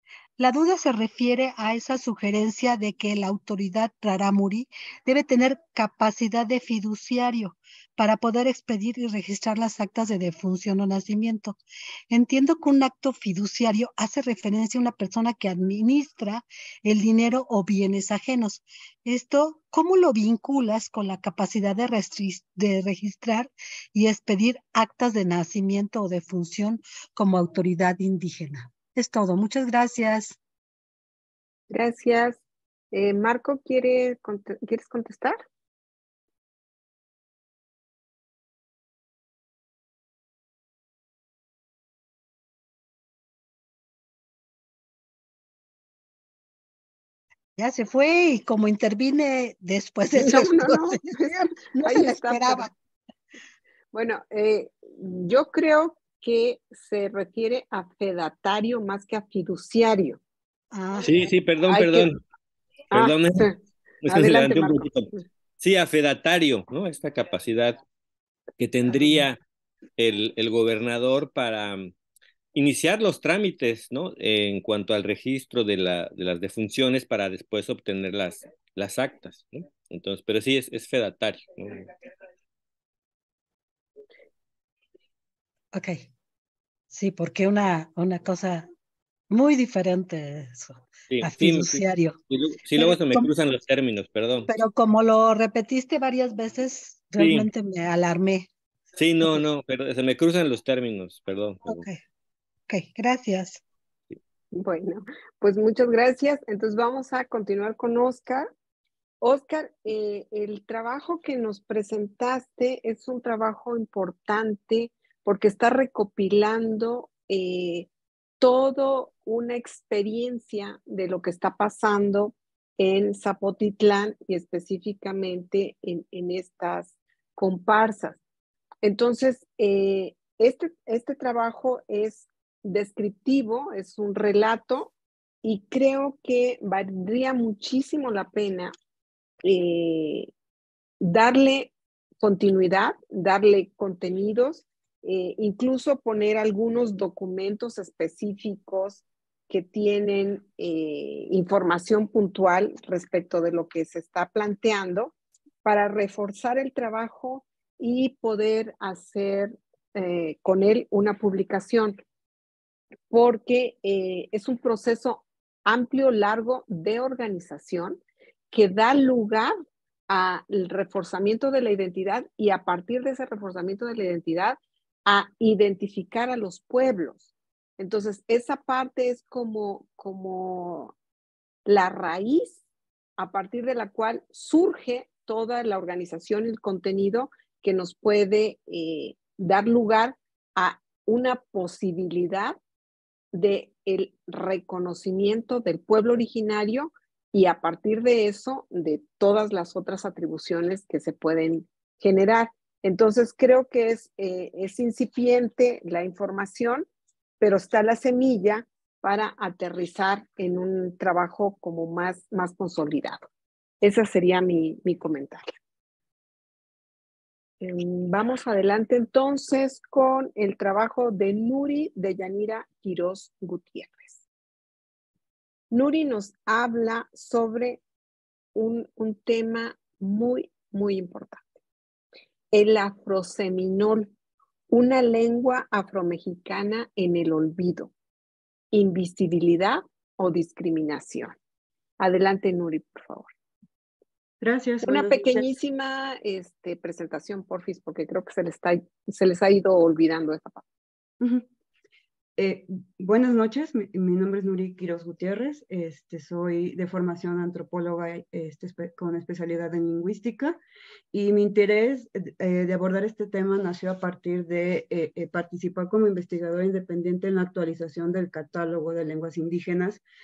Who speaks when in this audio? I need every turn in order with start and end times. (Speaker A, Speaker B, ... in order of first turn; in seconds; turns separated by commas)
Speaker A: 0.4-11.6, Speaker A: 12.1-30.4, Speaker B: 31.7-32.4, Speaker B: 32.9-35.4, Speaker A: 47.6-52.7, Speaker B: 50.1-52.7, Speaker B: 53.9-60.2, Speaker A: 60.7-61.3, Speaker C: 61.0-62.2, Speaker B: 61.7-62.1, Speaker C: 62.9-63.5, Speaker B: 62.9-63.5, Speaker C: 64.0-67.8, Speaker B: 64.0-65.2, Speaker C: 68.6-69.4, Speaker C: 70.0-71.9, Speaker C: 72.5-81.9, Speaker A: 85.7-86.1, Speaker A: 86.9-88.7, Speaker A: 89.3-92.2, Speaker C: 91.1-94.5, Speaker A: 92.7-93.3, Speaker A: 94.5-98.5, Speaker C: 97.2-97.5, Speaker C: 99.0-101.9, Speaker A: 99.2-99.4, Speaker A: 101.7-102.0, Speaker A: 102.7-103.6, Speaker B: 104.5-108.5, Speaker B: 109.2-117.9, Speaker B: 118.4-128.2, Speaker B: 128.8-134.9, Speaker B: 135.4-138.7, Speaker B: 139.4-140.3, Speaker B: 141.0-155.1, Speaker B: 155.6-162.0, Speaker B: 163.1-168.0, Speaker B: 168.5-169.5, Speaker B: 170.1-177.3, Speaker B: 177.8-180.9, Speaker B: 181.7-182.6, Speaker B: 183.2-192.6, Speaker B: 193.3-206.9, Speaker B: 207.4-213.3, Speaker B: 213.8-215.5, Speaker B: 217.6-224.2, Speaker B: 225.7-227.8, Speaker B: 228.6-231.5, Speaker B: 232.5-234.1, Speaker B: 234.7-237.9, Speaker B: 238.7-241.3, Speaker B: 242.0-243.3, Speaker D: 244.4-245.5, Speaker B: 244.8-250.6, Speaker D: 251.2-251.5, Speaker D: 252.4-260.6, Speaker D: 261.1-270.0